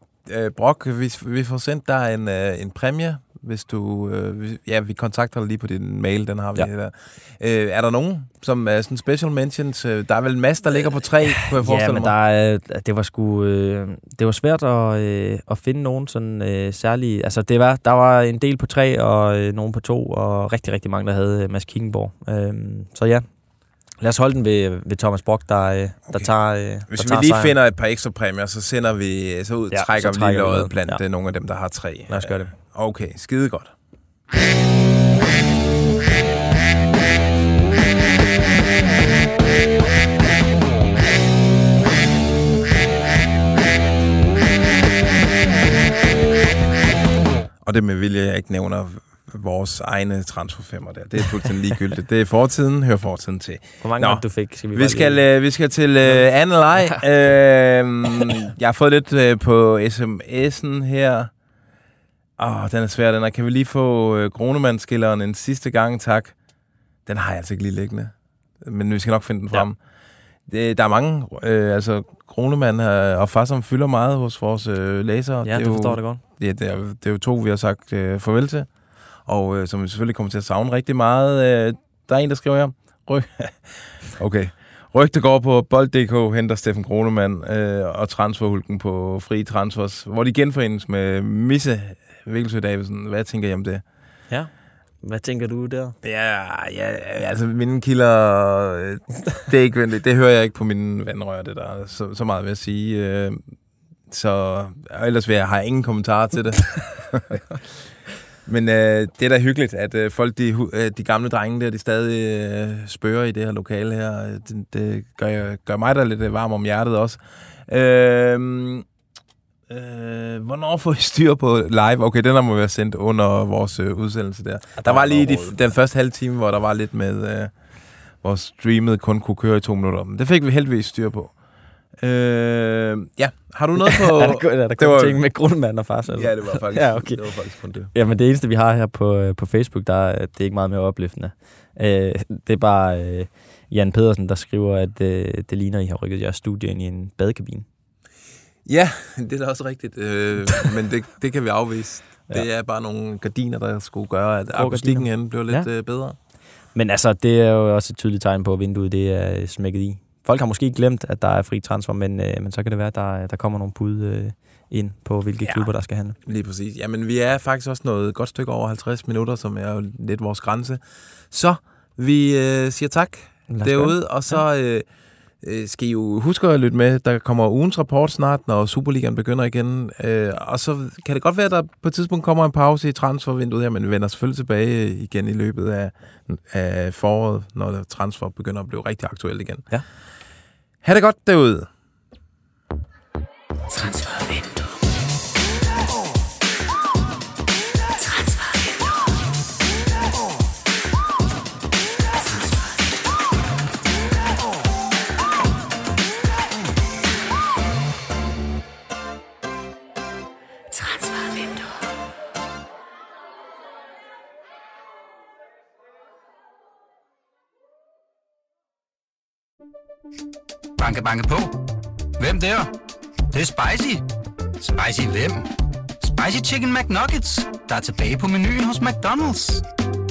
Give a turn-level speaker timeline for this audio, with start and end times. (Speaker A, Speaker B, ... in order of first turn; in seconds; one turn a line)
Speaker A: 0.2-12.1
Speaker B: 11.3-23.3
Speaker B: 24.0-27.5
Speaker A: 26.9-33.7
Speaker B: 29.7-31.0
Speaker B: 32.1-32.5
Speaker A: 47.6-54.2
Speaker B: 53.8-55.2
Speaker A: 54.7-61.3
Speaker B: 56.8-57.0
Speaker A: 62.4-66.3
Speaker A: 67.0-69.8
Speaker A: 70.5-78.7
Speaker B: 75.4-76.2
Speaker A: 79.2-93.8
Speaker B: 95.0-96.0
Speaker A: 96.0-103.4
Speaker A: 104.1-107.4
Speaker A: 108.5-118.8
Speaker A: 119.7-127.5
Speaker B: 124.8-125.5
Speaker A: 128.2-131.3
Speaker A: 132.0-135.2
Speaker B: 133.8-137.2
Speaker A: 136.1-137.9
Speaker B: 137.9-147.7
Speaker A: 148.7-156.2
Speaker B: 154.5-155.7
Speaker B: 156.7-166.2
Speaker A: 166.2-174.8
Speaker B: 173.5-174.4
Speaker A: 175.4-189.7
Speaker A: 190.8-191.7
Speaker C: 220.8-221.5
Speaker C: 222.2-222.7
Speaker C: 223.3-224.0
Speaker C: 224.6-225.4
Speaker C: 226.0-229.6